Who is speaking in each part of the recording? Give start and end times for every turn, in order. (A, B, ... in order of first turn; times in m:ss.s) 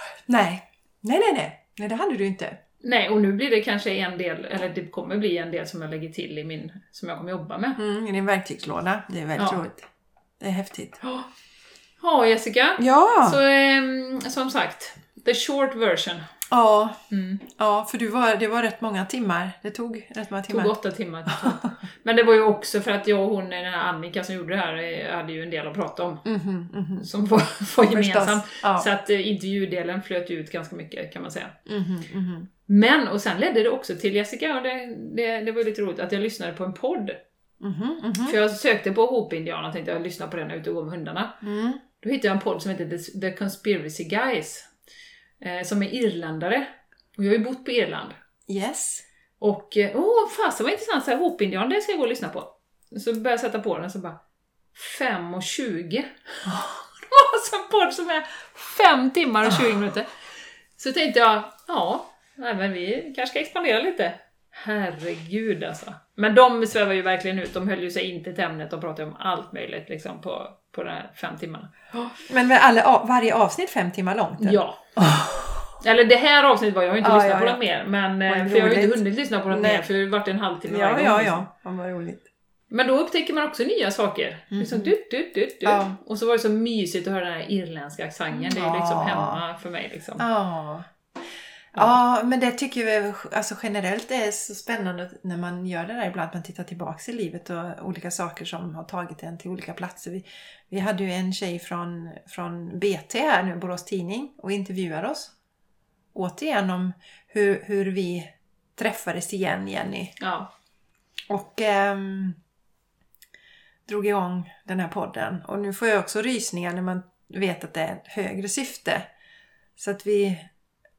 0:00.3-0:02.6 A
0:02.8-0:07.8 B
0:07.8-0:09.9 A
0:09.4-0:09.6 B
0:10.4-0:11.0 A
0:11.0-0:11.3 B
0:12.0-0:16.2 B
0:12.8-0:13.4 A
0:16.5-0:20.7 A
0:17.1-0:17.4 B
0:20.5-0:26.2 B
0:21.3-0:21.7 A
0:26.2-0:27.1 A
0:27.0-0:31.6 B
0:27.9-0:28.9 A
0:31.6-0:32.5 A
0:32.7-0:37.2 B
0:37.6-0:38.4 A
0:38.2-0:41.4 B
0:41.4-0:41.8 A
0:42.0-0:44.7 B
0:45.4-0:48.2 B
0:48.5-0:49.0 A
0:49.4-0:54.2 B
0:54.7-1:00.1 B
1:00.8-1:12.1 B
1:12.2-1:15.8 A
1:14.4-1:14.8 B
1:15.8-1:21.5 B
1:17.0-1:17.6 A
1:18.3-1:19.8 A
1:20.7-1:22.3 A
1:22.7-1:30.2 B
1:24.5-1:24.9 A
1:25.6-1:26.0 A
1:28.3-1:29.4 A
1:30.2-1:30.9 A
1:31.7-1:45.3 A
1:46.1-1:50.2 A
1:50.2-1:50.5 B
1:51.3-1:52.4 A
1:53.8-1:59.1 A
1:59.8-2:00.5 A